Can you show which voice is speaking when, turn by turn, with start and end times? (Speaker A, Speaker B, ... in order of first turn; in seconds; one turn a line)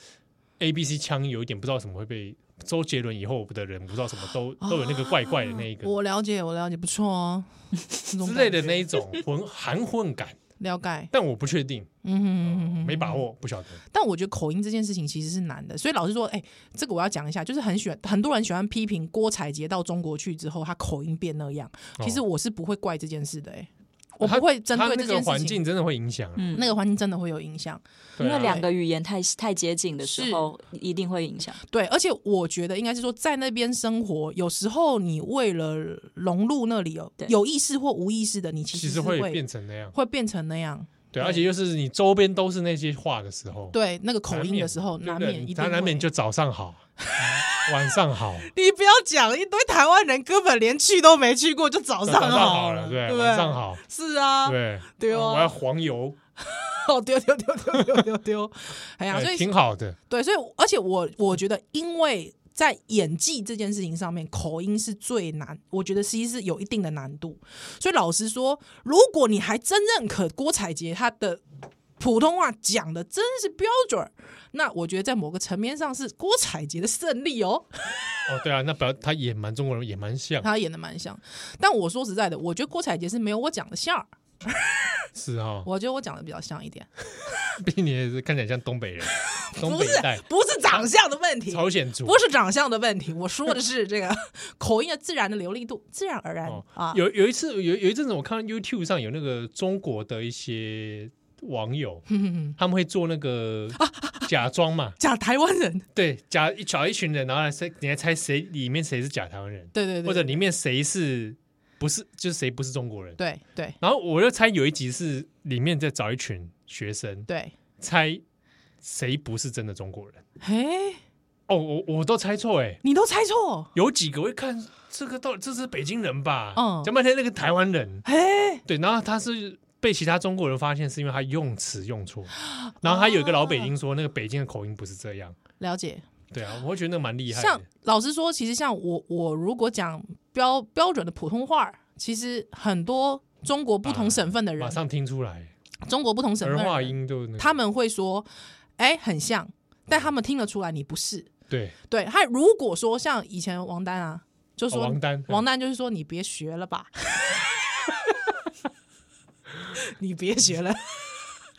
Speaker A: 0.6-5.9
Speaker B: 4.6-9.0
Speaker A: 8.2-10.4
Speaker B: 10.6-11.1
Speaker A: 11.1-11.9
Speaker B: 12.0-13.2
Speaker A: 12.4-13.8
Speaker B: 13.9-25.6
Speaker A: 24.2-26.5
Speaker C: 26.4-26.7
Speaker B: 26.5-28.7
Speaker A: 28.2-28.6
Speaker C: 28.2-31.6
Speaker B: 30.0-30.5
Speaker B: 31.7-39.4
Speaker A: 38.7-40.0
Speaker B: 39.9-41.5
Speaker A: 41.1-43.8
Speaker B: 43.7-46.1
Speaker A: 44.3-48.5
Speaker B: 47.0-47.7
Speaker B: 48.4-55.5
Speaker A: 52.0-53.8
Speaker A: 54.4-56.2
Speaker B: 56.4-59.5
Speaker A: 59.1-60.0
Speaker B: 60.1-71.4
Speaker B: 72.0-78.0
Speaker A: 78.3-80.5
Speaker B: 80.4-85.1
Speaker A: 85.2-85.7
Speaker B: 85.6-86.9
Speaker A: 87.6-90.9
Speaker B: 89.2-97.0
Speaker A: 91.5-92.2
Speaker A: 96.5-102.1
Speaker B: 102.1-102.6
Speaker A: 102.6-105.0
Speaker B: 103.8-104.3
Speaker B: 105.0-105.9
Speaker A: 106.0-113.2
Speaker B: 109.7-110.4
Speaker B: 113.2-113.8
Speaker A: 113.8-117.3
Speaker B: 117.3-117.5
Speaker A: 117.8-118.2
Speaker A: 118.8-120.2
Speaker B: 120.4-121.0
Speaker A: 121.5-122.8
Speaker B: 122.8-123.7
Speaker A: 123.8-128.0
Speaker B: 126.5-126.9
Speaker B: 128.1-128.6
Speaker A: 128.7-135.4
Speaker B: 132.4-133.7
Speaker B: 135.6-136.1
Speaker A: 136.3-137.6
Speaker B: 137.3-144.8
Speaker A: 143.8-145.5
Speaker B: 145.8-151.3
Speaker A: 146.4-147.6
Speaker A: 151.5-151.8
Speaker B: 151.9-158.2
Speaker A: 154.7-155.5
Speaker B: 159.7-161.2